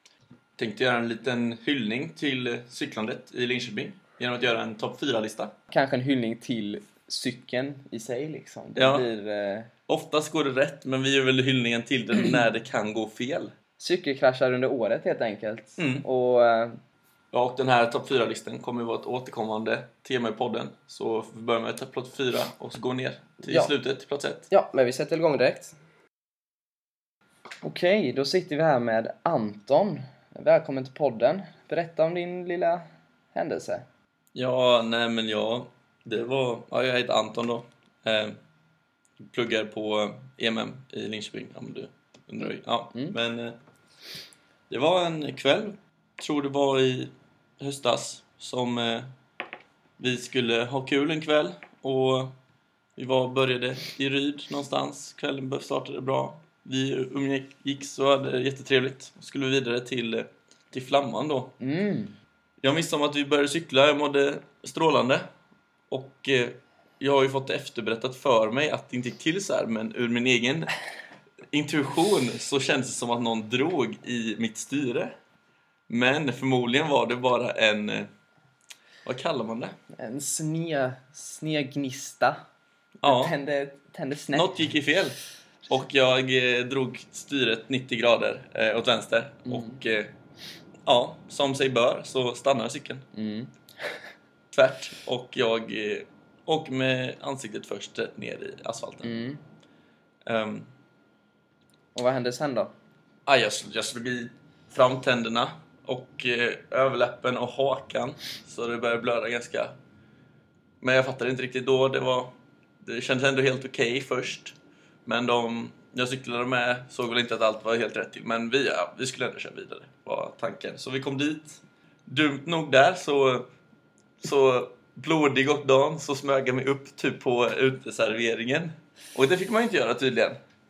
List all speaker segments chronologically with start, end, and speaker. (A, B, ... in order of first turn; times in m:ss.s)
0:00.6-0:05.5 A
0:05.7-0:09.7 B
0:08.7-0:09.1 A
0:09.9-0:13.5 A
0:13.8-0:16.8 B
0:15.8-0:16.0 A
0:17.3-0:24.5 A
0:23.4-0:23.7 B
0:24.5-0:25.8 B
0:27.6-0:33.8 B
0:34.3-0:38.4 A
0:39.2-0:43.6 A
0:44.7-0:49.1 A
0:50.0-0:52.3 A
0:53.0-1:01.6 A
1:01.6-1:02.1 B
1:02.6-1:05.3 A
1:05.9-1:10.7 A
1:11.5-1:15.2 A
1:15.9-1:18.1 A
1:19.0-1:19.8 A
1:19.9-1:22.4 B
1:23.0-1:23.3 A
1:23.0-1:24.5 B
1:24.3-1:30.1 A
1:29.5-1:29.8 B
1:30.8-1:33.1 A
1:33.1-1:34.0 B
1:34.5-1:39.1 A
1:39.0-1:39.4 B
1:40.2-1:40.7 A
1:41.9-1:42.7 B
1:43.2-1:49.7 A
1:50.8-2:03.5 A
2:04.2-2:10.4 A